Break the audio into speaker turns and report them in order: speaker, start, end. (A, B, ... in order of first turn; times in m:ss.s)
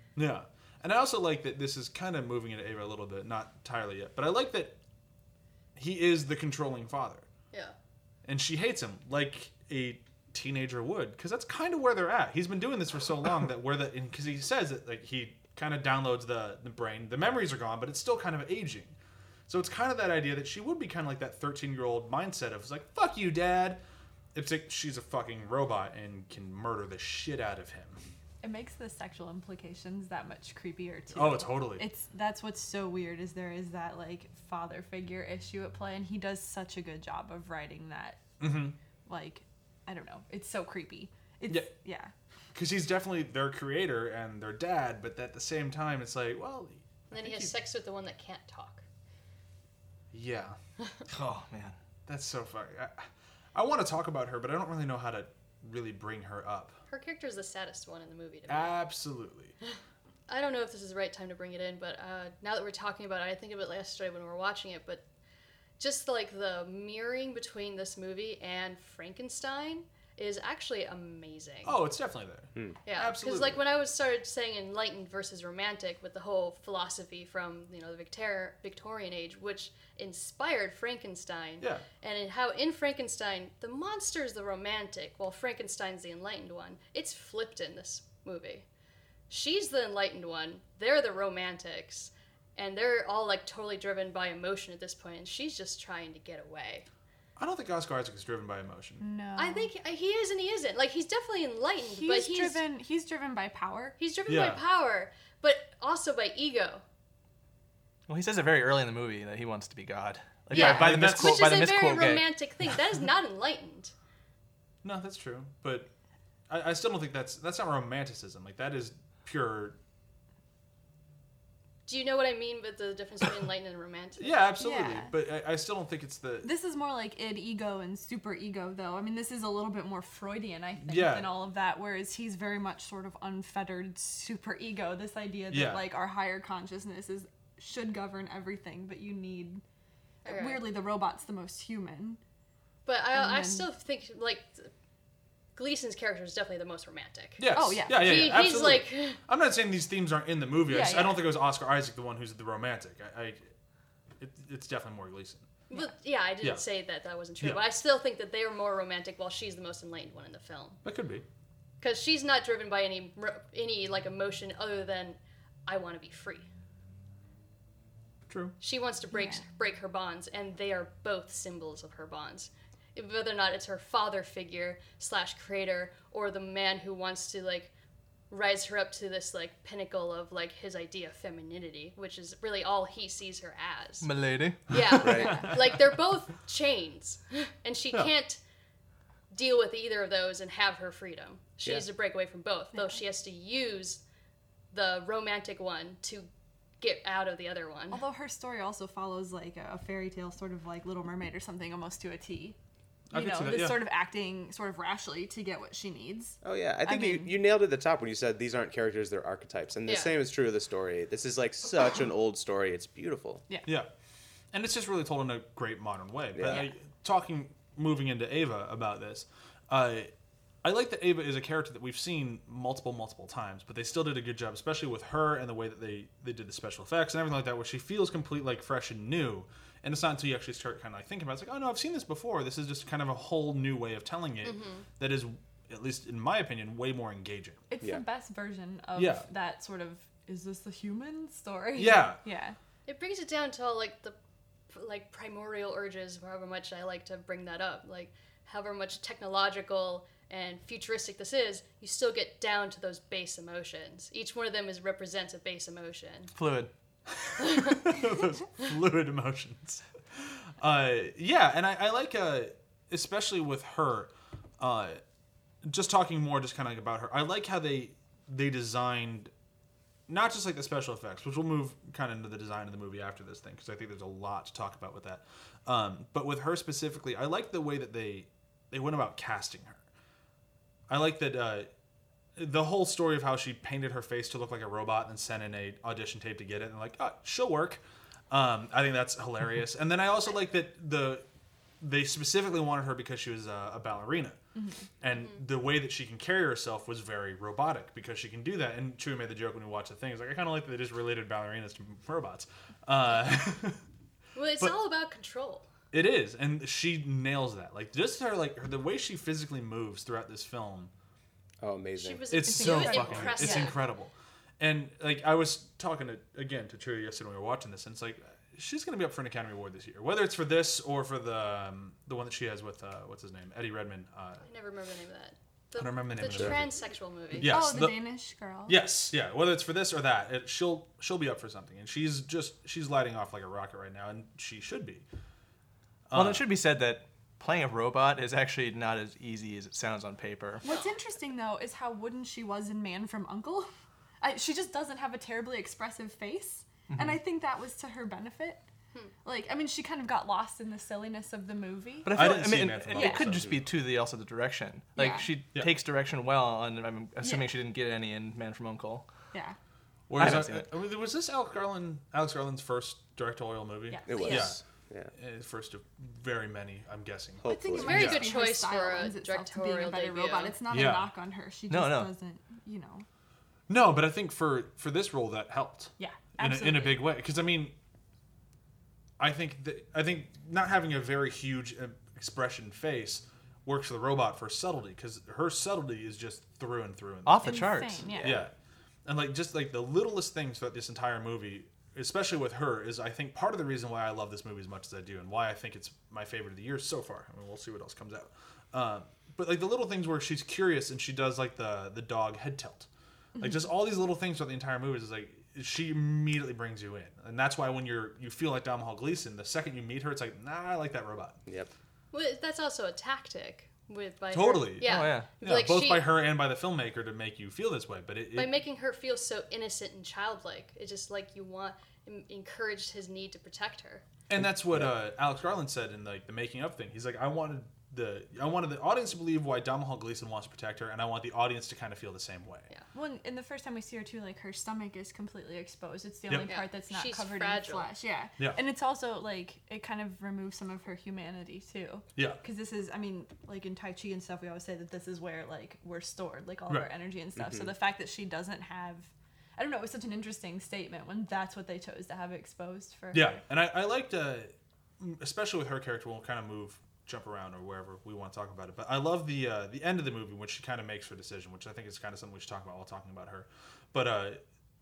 0:00.2-0:04.8 A
0:05.8-0:07.3 A
0:08.2-0:19.0 A
0:19.5-0:23.8 A
0:24.4-0:28.0 A
0:28.4-0:38.2 B
0:31.2-0:31.9 A
0:38.4-0:38.8 A
0:39.1-0:42.1 B
0:41.5-0:41.7 A
0:42.5-0:47.5 A
0:47.1-0:48.8 C
0:50.1-0:50.6 A
0:51.1-0:51.8 D
0:52.1-0:56.8 A
0:56.9-0:58.8 C
0:58.5-0:59.6 A
1:00.3-1:05.0 C
1:05.8-1:11.8 C
1:11.6-1:13.6 A
1:12.9-1:28.7 C
1:29.3-1:36.9 C
1:37.4-1:39.0 A
1:39.0-1:39.7 B
1:39.4-1:42.6 C
1:41.8-1:44.0 B
1:44.0-1:46.8 C
1:44.3-1:44.6 A
1:48.1-1:52.3 D
1:50.5-1:51.5 A
1:50.5-1:53.9 C
1:54.8-1:55.9 A
1:56.5-1:59.8 A
2:01.9-2:04.4 C
2:04.2-2:06.5 A
2:04.6-2:05.1 B
2:06.4-2:19.6 B
2:10.8-2:11.3 A
2:15.5-2:15.8 A
2:20.2-2:20.7 C
2:20.2-2:22.2 B
2:22.9-2:24.7 C
2:23.1-2:23.7 B
2:25.6-2:29.2 C
2:27.4-2:33.4 A
2:27.5-2:28.6 B
2:30.7-2:31.3 B
2:34.2-2:35.5 A
2:35.7-2:40.8 C
2:40.8-2:41.2 A
2:41.8-2:46.5 C
2:48.3-2:48.6 A
2:48.6-2:57.7 C
2:49.1-2:49.4 B
2:58.3-3:04.1 C
3:04.0-3:05.0 D
3:04.7-3:08.4 C
3:05.0-3:05.4 E
3:05.3-3:05.8 A
3:09.3-3:14.0 C
3:12.7-3:13.0 B
3:14.7-3:16.3 C
3:16.8-3:18.0 C
3:17.9-3:22.6 B
3:23.1-3:23.8 A
3:23.1-3:27.3 B
3:26.4-3:33.4 E
3:29.9-3:30.2 C
3:34.5-3:40.1 A
3:36.3-3:36.6 E
3:40.6-3:57.7 A
3:54.4-3:54.8 C
3:57.7-4:02.6 B
3:59.0-3:59.3 A
4:01.8-4:02.2 A
4:02.9-4:04.2 C
4:04.7-4:16.3 C
4:16.4-4:16.7 D
4:17.1-4:25.0 A
4:17.4-4:17.8 C
4:25.6-4:29.3 A
4:30.1-4:39.8 A
4:40.9-4:41.7 A
4:42.4-4:51.2 A
4:51.8-4:54.4 A
4:54.6-4:54.8 B
4:55.0-5:03.8 A
5:04.4-5:05.7 C
5:05.9-5:10.9 A
5:11.6-5:12.3 E
5:12.0-5:13.8 C
5:12.3-5:24.5 A
5:12.4-5:13.8 B
5:24.4-5:27.5 C
5:25.8-5:26.7 A
5:26.3-5:26.6 E
5:27.4-5:28.0 A
5:27.4-5:28.8 B
5:28.7-5:35.0 A
5:36.1-5:36.5 A
5:36.1-5:40.7 D
5:40.6-5:43.7 B
5:44.2-5:48.6 B
5:46.9-5:47.2 D
5:49.2-5:52.2 B
5:52.0-5:59.1 D
5:52.1-5:53.5 A
5:52.9-5:53.3 B
5:55.0-5:55.3 B
5:57.2-5:57.5 B
6:00.1-6:04.6 A
6:00.2-6:00.7 D
6:03.9-6:04.5 B
6:04.1-6:05.1 E
6:05.1-6:08.3 A
6:07.4-6:08.2 E
6:07.5-6:13.1 B
6:07.7-6:10.6 C
6:10.7-6:11.1 A
6:11.7-6:12.1 D
6:13.7-6:17.7 A
6:16.0-6:17.1 B
6:19.2-6:28.5 A
6:27.3-6:28.2 D
6:27.4-6:28.4 B
6:28.1-6:28.5 E
6:29.1-6:42.9 A
6:43.4-6:43.7 B
6:43.4-6:51.4 A
6:51.5-6:51.7 E
6:52.1-6:56.1 C
6:54.3-6:58.5 A
6:54.8-6:55.3 D
6:58.4-7:04.1 C
7:04.3-7:12.7 A
7:12.9-7:33.4 B
7:16.5-7:17.9 C
7:27.4-7:27.7 E
7:33.1-7:44.4 A